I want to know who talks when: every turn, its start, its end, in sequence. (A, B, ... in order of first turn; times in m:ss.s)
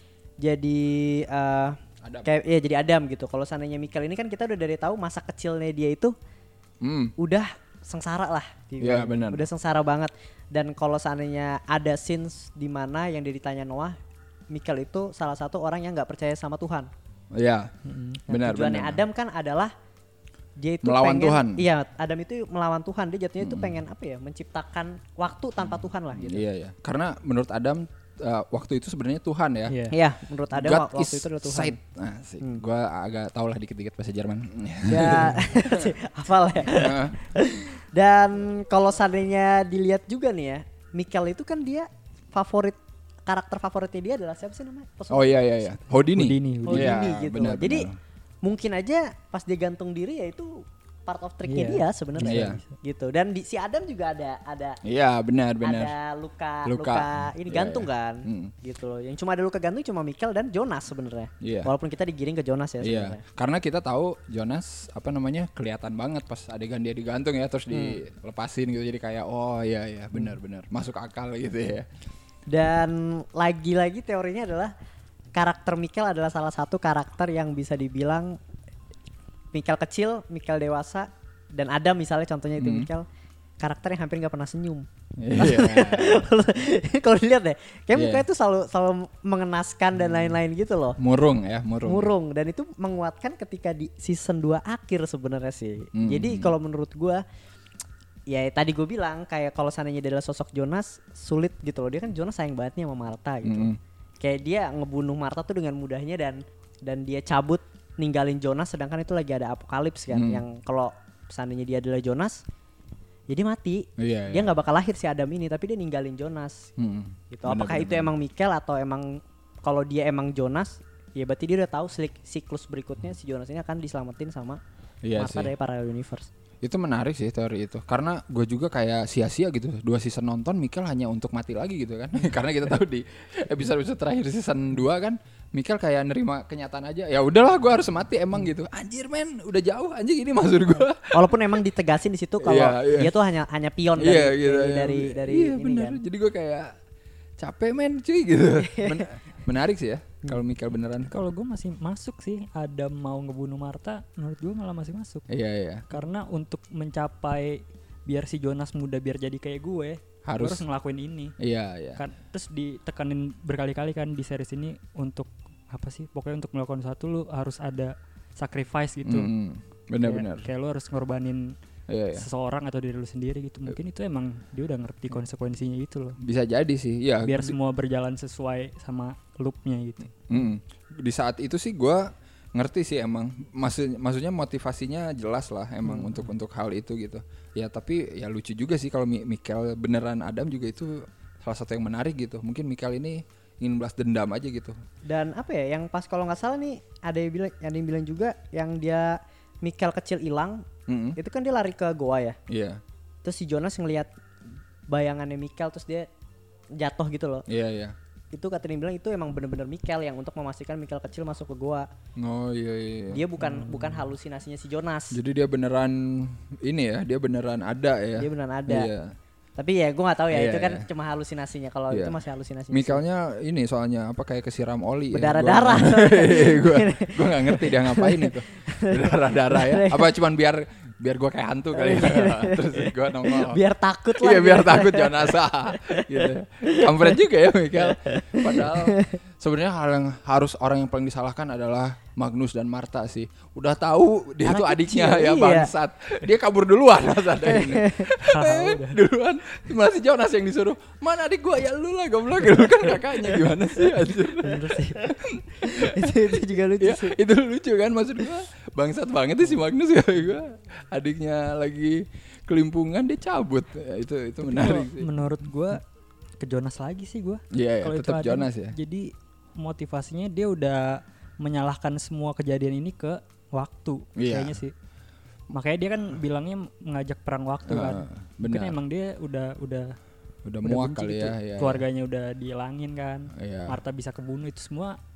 0:00.4-0:06.1 A
0:06.8-0:07.1 B
0:07.2-0:14.0 A
0:08.8-0:09.4 B
0:14.5-0:16.9 A
0:17.3-0:17.7 B
0:17.8-0:18.2 C
0:18.3-0:19.0 B
0:18.3-0:19.7 A
0:20.6-0:26.4 A
0:20.8-0:21.6 B
0:23.4-0:23.8 B
0:26.1-0:29.8 B
0:29.7-0:30.0 C
0:29.9-0:31.8 A
0:30.5-0:35.9 B
0:34.9-0:45.8 A
0:36.7-0:37.2 B
0:45.1-0:48.0 B
0:46.2-0:47.0 C
0:46.7-0:47.9 A
0:48.4-0:54.8 A
0:51.5-0:52.6 C
0:52.2-0:52.6 B
0:54.8-0:55.9 B
0:55.6-1:03.2 A
0:56.6-0:58.5 B
1:01.4-1:01.7 B
1:02.8-1:11.9 B
1:07.7-1:08.0 A
1:12.5-1:14.7 A
1:15.4-1:18.4 A
1:19.5-1:23.1 A
1:22.6-1:22.9 B
1:23.6-1:31.0 A
1:25.2-1:26.3 B
1:27.9-1:28.2 B
1:30.0-1:30.4 B
1:31.0-1:32.1 B
1:31.8-1:37.2 A
1:36.0-1:36.5 B
1:38.3-1:52.4 A
1:43.4-1:43.8 B
1:50.1-1:50.4 B
1:53.3-1:56.7 A
1:54.0-1:54.5 B
1:56.8-1:58.1 B
1:57.3-2:04.6 A
2:05.0-2:05.5 B
2:05.2-2:06.3 A
2:06.6-2:21.5 B
2:21.1-2:26.0 A
2:22.4-2:23.1 B
2:24.0-2:26.7 B
2:27.4-2:31.2 B
2:28.6-2:29.1 A
2:31.1-2:35.3 C
2:35.3-2:35.9 B
2:35.9-2:41.4 C
2:40.3-2:40.6 B
2:41.4-2:42.0 B
2:42.0-2:49.3 C
2:49.0-2:50.5 B
2:50.0-2:51.6 C
2:51.9-2:52.3 B
2:52.1-2:56.2 C
2:56.2-2:57.6 B
2:57.2-3:00.2 C
3:00.3-3:14.8 B
3:05.8-3:06.3 C
3:15.1-3:20.6 A
3:20.9-3:21.2 B
3:21.2-3:22.4 A
3:22.5-3:22.8 B
3:23.2-3:24.1 A
3:24.9-3:26.1 A
3:26.8-3:27.5 A
3:27.5-3:28.0 B
3:28.3-3:31.9 A
3:32.2-3:33.2 B
3:33.1-3:35.2 A
3:33.4-3:34.1 C
3:35.1-3:39.1 B
3:38.2-3:38.9 A
3:39.6-3:43.0 A
3:40.3-3:40.9 B
3:41.9-3:42.2 B
3:42.7-3:53.6 B
3:45.1-3:50.1 A
3:51.8-3:57.1 A
3:54.2-4:16.2 B
3:57.8-3:59.2 A
4:04.4-4:05.7 A
4:07.4-4:08.1 A
4:08.2-4:09.0 C
4:14.3-4:15.0 C
4:15.6-4:17.2 A
4:16.8-4:25.1 B
4:24.5-4:25.8 C
4:26.4-4:34.7 C
4:27.5-4:28.8 B
4:34.2-4:34.6 B
4:35.5-4:40.0 C
4:37.7-4:38.8 B
4:40.5-4:41.8 B
4:40.6-4:45.0 C
4:43.3-4:43.8 B